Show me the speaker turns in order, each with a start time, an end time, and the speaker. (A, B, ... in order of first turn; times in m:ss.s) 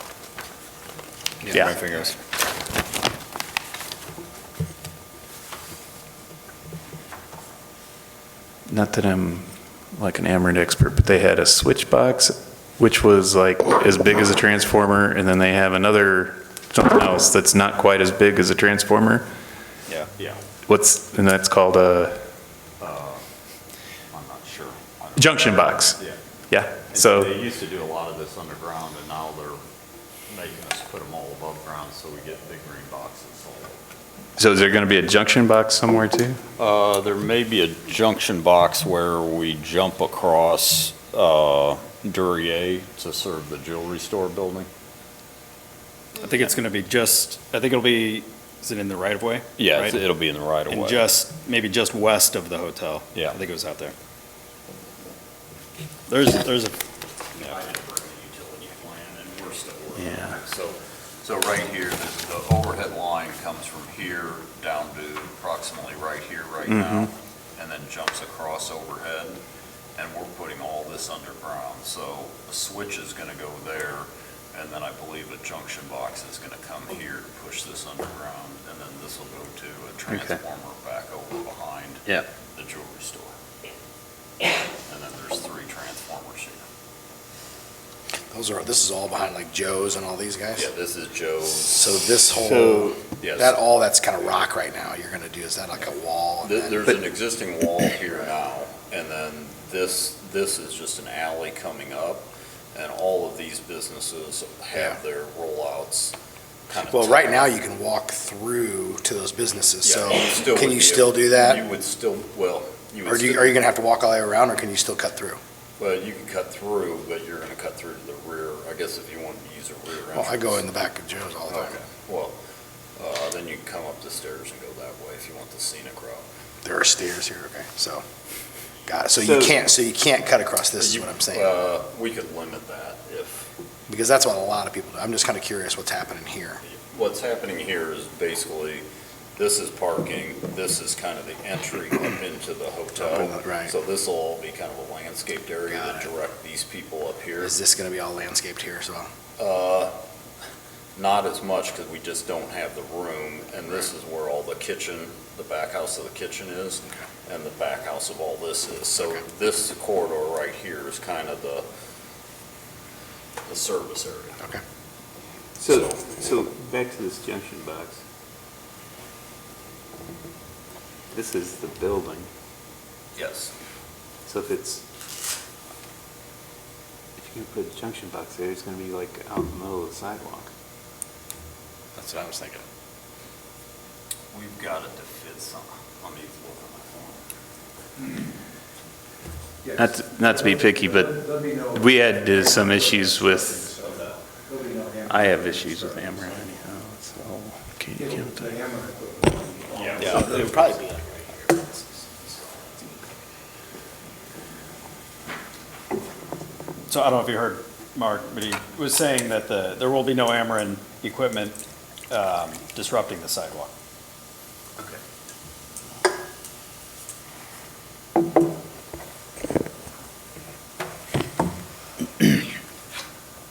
0:01.4-0:02.2 A
0:08.7-0:19.3 B
0:20.7-0:22.2 B
0:22.8-0:23.2 C
0:24.1-0:26.2 C
0:25.2-0:26.0 B
0:26.5-0:27.3 B
0:26.9-0:29.6 C
0:30.3-0:33.8 C
0:34.4-0:36.4 B
0:36.6-0:44.7 C
0:46.2-0:50.0 A
0:49.6-0:51.1 C
0:50.7-0:54.0 A
0:56.1-0:56.8 A
0:57.4-1:09.4 C
1:00.0-1:00.4 B
1:06.6-1:07.1 B
1:10.0-1:23.4 C
1:20.1-1:20.4 B
1:24.9-1:26.6 C
1:28.3-1:30.7 D
1:30.6-1:32.0 C
1:31.6-1:36.8 D
1:32.4-1:33.0 B
1:33.2-1:33.6 C
1:36.4-1:46.2 C
1:46.7-1:47.4 C
1:46.8-1:51.6 D
1:49.8-1:53.6 C
1:53.1-1:55.4 D
1:55.8-2:00.6 C
2:00.1-2:01.8 D
2:01.5-2:02.4 C
2:03.0-2:06.2 C
2:06.6-2:08.0 D
2:08.9-2:11.5 D
2:09.2-2:09.6 C
2:10.8-2:13.5 C
2:13.9-2:16.6 D
2:16.6-2:18.8 C
2:19.4-2:27.6 C
2:23.0-2:23.8 D
2:25.8-2:26.0 D
2:27.4-2:29.1 D
2:29.4-2:29.9 C
2:31.0-2:41.7 C
2:43.5-2:44.4 C
2:45.6-2:46.3 C
2:45.7-2:47.9 E
2:51.2-2:52.3 E
2:53.2-2:53.5 C
2:54.4-2:54.8 E
2:57.2-3:00.5 E
3:02.0-3:02.6 D
3:04.3-3:07.2 C
3:09.8-3:13.8 B
3:14.6-3:15.3 D
3:15.1-3:18.6 B
3:18.6-3:21.7 D
3:19.8-3:20.3 C
3:20.0-3:20.4 B
3:26.9-3:31.6 A
3:32.1-3:33.7 A